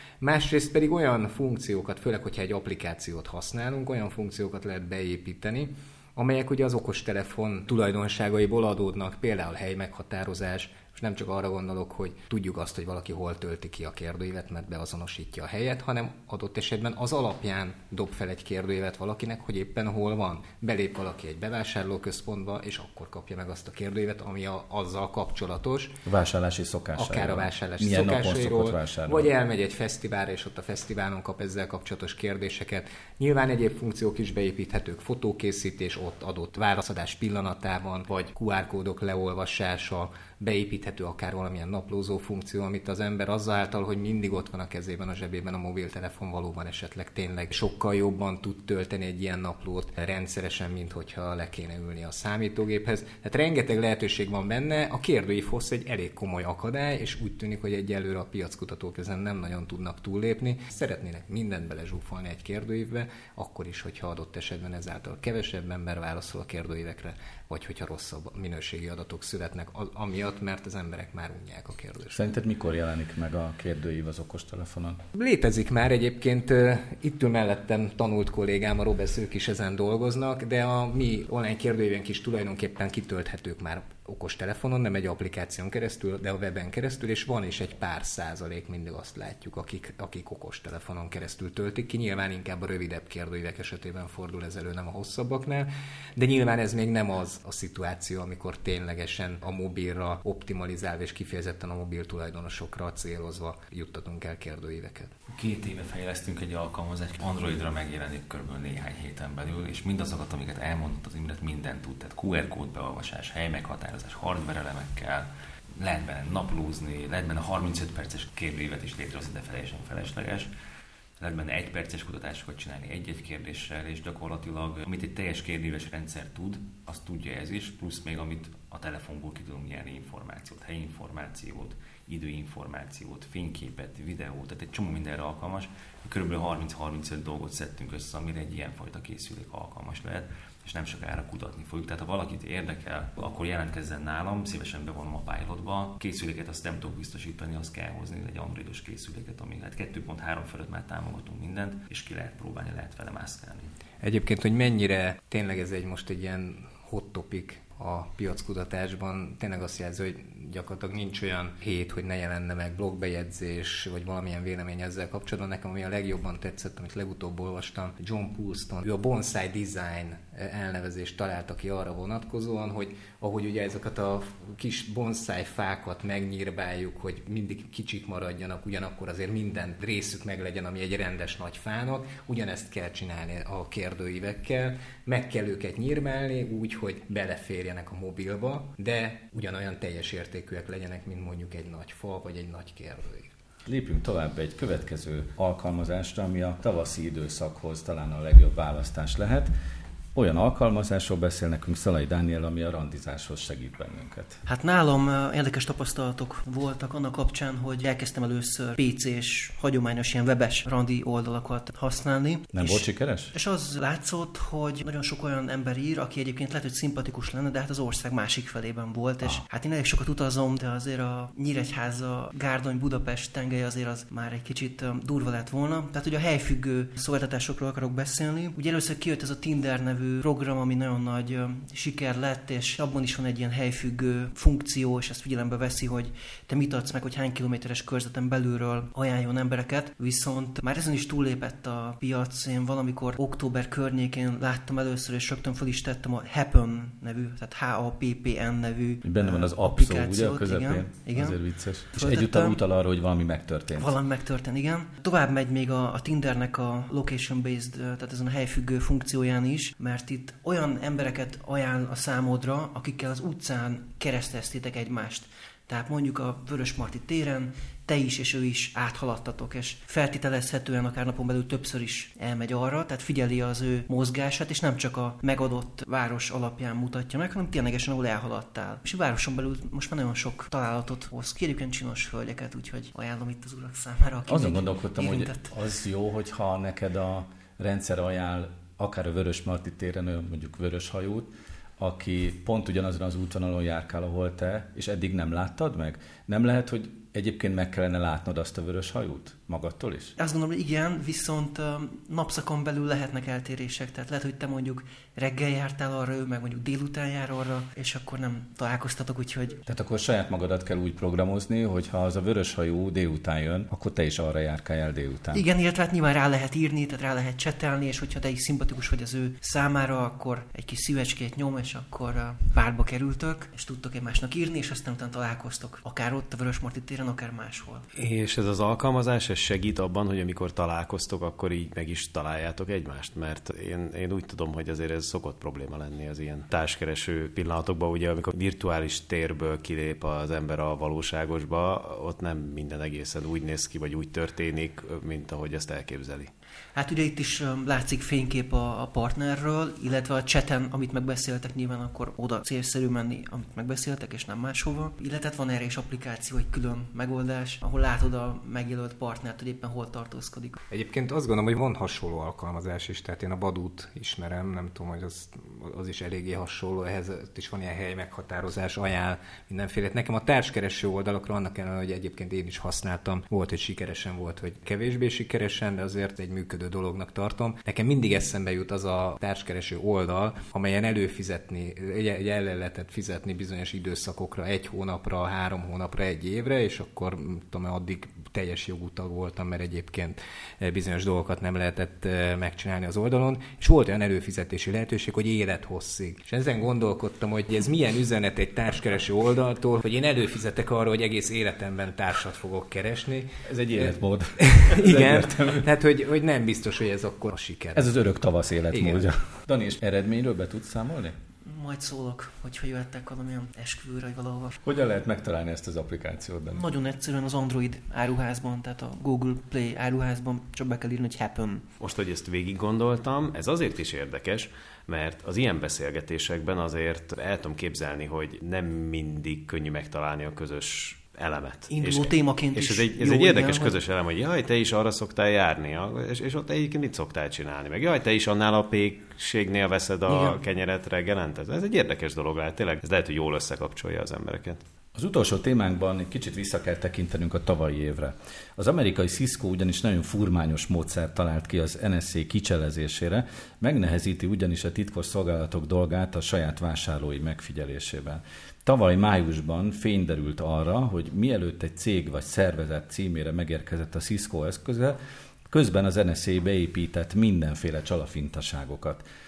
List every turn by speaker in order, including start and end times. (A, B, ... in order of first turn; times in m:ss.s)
0:00.2-0:25.9 A
0:26.0-0:29.3 B
0:27.0-1:12.2 A
1:12.1-1:15.0 B
1:15.1-1:45.1 A
1:45.3-2:00.5 C
2:01.2-2:33.7 C
2:34.0-3:13.3 A
3:13.6-3:19.5 B
3:20.1-3:24.4 B
3:24.4-4:12.6 D
3:32.5-3:33.3 B
4:09.0-4:13.9 B
4:13.8-4:45.5 D
4:44.3-5:00.1 B
5:00.2-5:09.6 D
5:09.6-5:15.4 B
5:15.3-5:27.8 D
5:28.0-5:46.3 E
5:46.7-6:00.6 D
6:00.7-6:47.9 A
6:43.4-6:45.7 B
6:47.8-6:51.1 B
6:48.7-6:49.1 A
6:51.4-6:54.6 D
6:54.6-6:56.6 B
6:56.5-7:01.6 D
7:01.8-7:24.6 E
7:11.7-7:13.8 D
7:20.1-7:20.4 D
7:24.9-7:45.0 B
7:45.5-7:49.0 B